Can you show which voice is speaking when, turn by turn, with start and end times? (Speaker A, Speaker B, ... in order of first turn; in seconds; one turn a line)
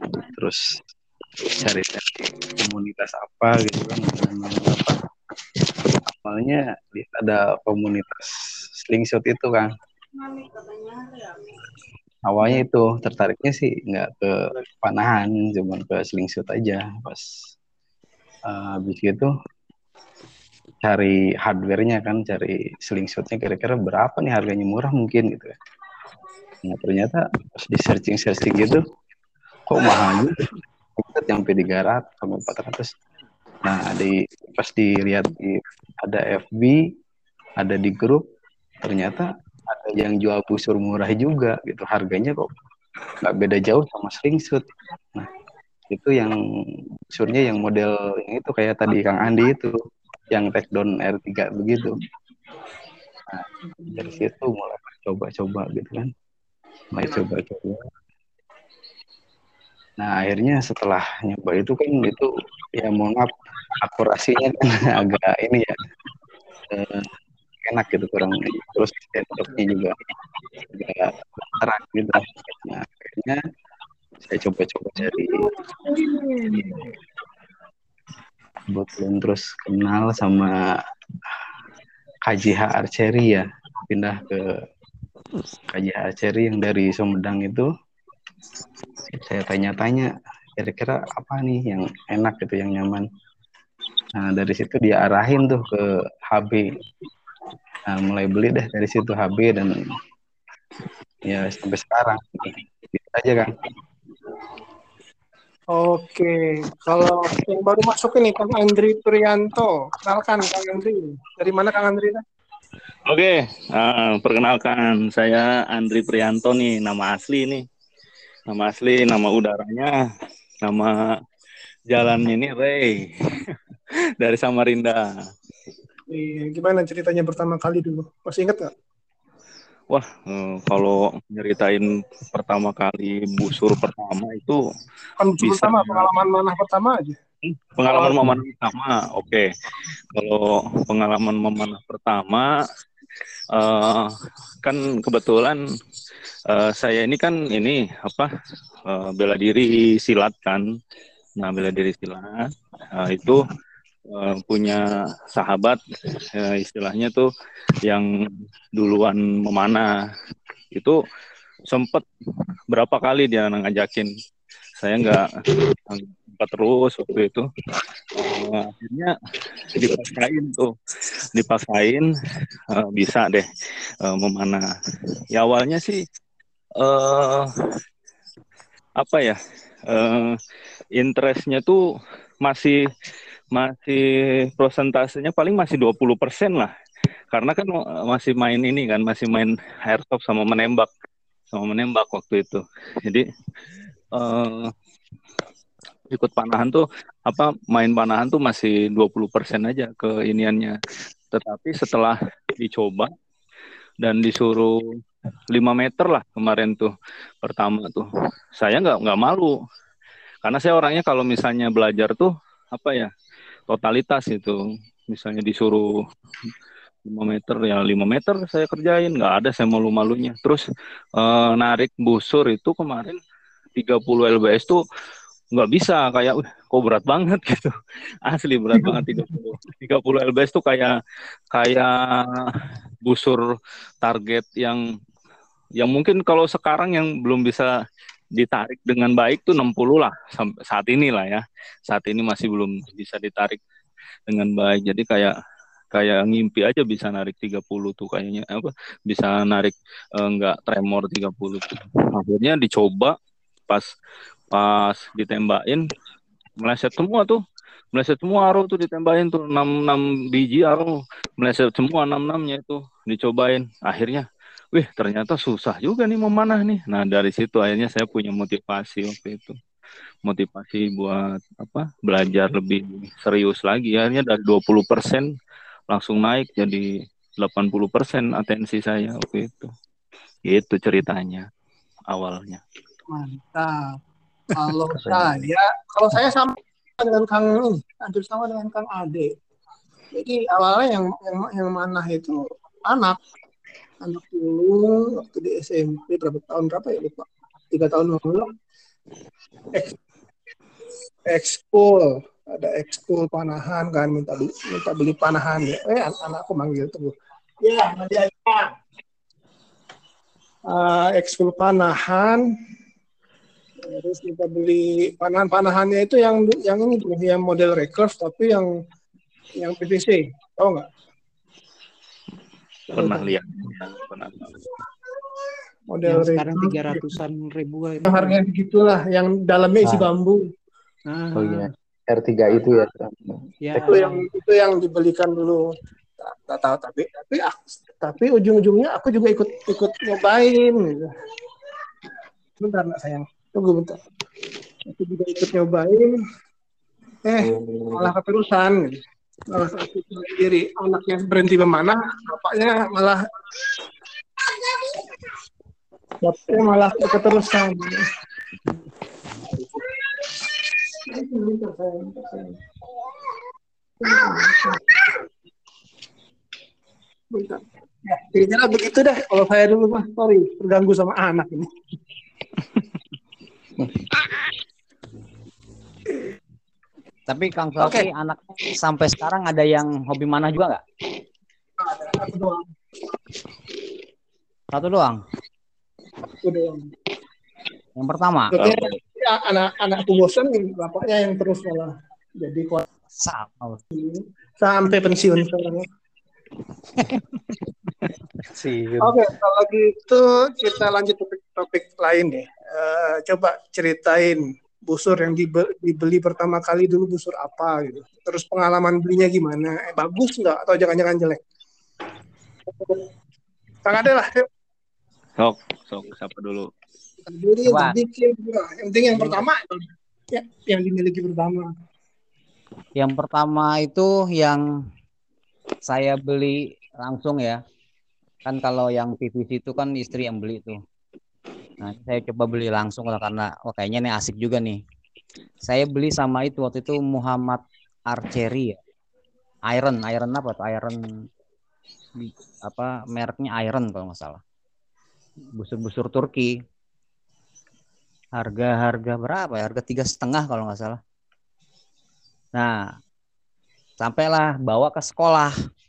Speaker A: 0.2-0.6
Speaker A: 1.5-5.0
Speaker A: 6.1-8.3
Speaker A: 8.8-9.7
Speaker A: 12.3-17.2
Speaker A: 18.5-19.3
Speaker A: 20.8-25.6
Speaker A: 26.6-28.8
Speaker A: 29.7-32.9
Speaker A: 33.6-36.8
Speaker A: 37.6-38.2
Speaker A: 38.8-42.6
Speaker A: 43.2-45.3
Speaker A: 45.9-46.4
Speaker A: 47.1-49.7
Speaker A: 50.3-51.9
Speaker A: 53.3-56.1
Speaker A: 56.9-57.9
Speaker A: 60.0-65.8
Speaker A: 66.7-67.1
Speaker A: 67.6-70.0
Speaker A: 70.6-73.4
Speaker A: 74.2-75.4
Speaker B: 75.1-76.9
Speaker A: 78.7-80.7
Speaker A: 82.2-84.5
Speaker A: 85.7-87.7
Speaker A: 89.1-93.0
Speaker A: 94.2-96.6
Speaker A: 97.9-100.0
Speaker A: 101.2-103.7
Speaker B: 105.7-112.2
Speaker C: 113.1-117.6
Speaker C: 118.5-119.9
Speaker C: 120.6-121.0
Speaker C: 121.9-123.5
Speaker C: 124.2-125.0
Speaker B: 126.1-128.7
Speaker C: 129.9-134.6
Speaker B: 135.2-137.2
Speaker C: 135.4-136.1
Speaker C: 137.5-139.5
Speaker B: 137.9-138.3
Speaker C: 140.2-142.5
Speaker C: 143.5-144.1
Speaker C: 144.6-145.6
Speaker C: 146.5-148.3
Speaker C: 148.9-150.6
Speaker C: 151.4-152.4
Speaker C: 152.9-153.5
Speaker C: 154.1-154.8
Speaker C: 155.3-155.8
Speaker C: 156.3-157.3
Speaker C: 158.8-159.9
Speaker C: 161.7-162.0
Speaker C: 162.7-164.1
Speaker C: 164.8-165.3
Speaker C: 165.9-167.5
Speaker C: 168.1-169.1
Speaker C: 169.7-170.7
Speaker C: 171.3-172.1
Speaker C: 172.7-173.5
Speaker C: 174.0-174.6
Speaker C: 175.3-176.0
Speaker C: 176.8-177.5
Speaker C: 179.0-180.3
Speaker C: 181.0-181.8
Speaker C: 182.4-182.8
Speaker C: 183.5-184.0
Speaker C: 184.6-186.7
Speaker C: 187.3-190.9
Speaker C: 191.5-193.2
Speaker C: 194.1-194.7
Speaker C: 196.1-200.8
Speaker C: 201.3-203.1
Speaker C: 204.0-204.8
Speaker C: 205.5-206.9
Speaker C: 207.4-208.1
Speaker C: 208.6-209.5
Speaker C: 210.4-213.1
Speaker C: 213.7-214.6
Speaker C: 215.1-215.8
Speaker C: 217.1-220.6
Speaker C: 221.2-223.2
Speaker C: 223.8-224.8
Speaker C: 225.5-227.7
Speaker C: 228.3-230.9
Speaker B: 228.8-229.1
Speaker C: 231.5-232.4
Speaker C: 233.1-233.4
Speaker C: 234.0-234.8
Speaker C: 235.8-237.7
Speaker C: 238.4-243.6
Speaker C: 244.3-245.3
Speaker C: 245.9-253.1
Speaker C: 254.5-255.8
Speaker C: 256.6-257.4
Speaker C: 257.9-269.6
Speaker C: 270.2-275.3
Speaker C: 275.9-276.9
Speaker C: 277.4-279.7
Speaker C: 280.5-281.4
Speaker C: 282.1-282.6
Speaker B: 283.1-284.0
Speaker B: 284.5-289.3
Speaker A: 285.0-285.4
Speaker B: 290.1-293.2
Speaker B: 294.0-298.5
Speaker B: 301.3-307.1
Speaker B: 307.6-308.7
Speaker B: 310.7-312.4
Speaker B: 313.8-318.7
Speaker B: 319.6-320.9
Speaker C: 322.9-324.5
Speaker B: 322.9-323.3
Speaker B: 325.9-327.2
Speaker D: 326.0-328.4
Speaker B: 328.0-330.4
Speaker D: 331.1-331.7
Speaker A: 331.3-333.4
Speaker D: 333.6-334.3
Speaker B: 333.8-335.6
Speaker B: 336.2-341.1
Speaker B: 342.6-344.0
Speaker B: 344.9-346.2
Speaker B: 347.2-349.0
Speaker B: 349.5-353.2
Speaker B: 354.5-354.9
Speaker B: 356.2-358.0
Speaker B: 359.5-362.6
Speaker B: 364.0-365.2
Speaker B: 367.3-371.7
Speaker E: 377.3-380.8
Speaker B: 377.8-378.1
Speaker B: 381.8-382.7
Speaker E: 384.7-385.2
Speaker B: 386.4-386.9
Speaker E: 388.0-388.6
Speaker B: 388.5-392.8
Speaker E: 393.2-393.8
Speaker B: 393.9-395.8
Speaker D: 398.5-399.1
Speaker B: 399.0-411.4
Speaker B: 413.8-414.4
Speaker C: 415.4-416.7
Speaker B: 417.2-421.7
Speaker E: 417.6-418.0
Speaker E: 419.1-419.4
Speaker E: 423.0-424.6
Speaker E: 425.9-427.6
Speaker E: 428.4-430.8
Speaker E: 431.8-434.8
Speaker E: 435.7-438.8
Speaker E: 439.7-441.0
Speaker E: 442.2-444.4
Speaker E: 445.6-446.5
Speaker E: 448.4-451.0
Speaker E: 452.5-452.8
Speaker E: 454.0-455.5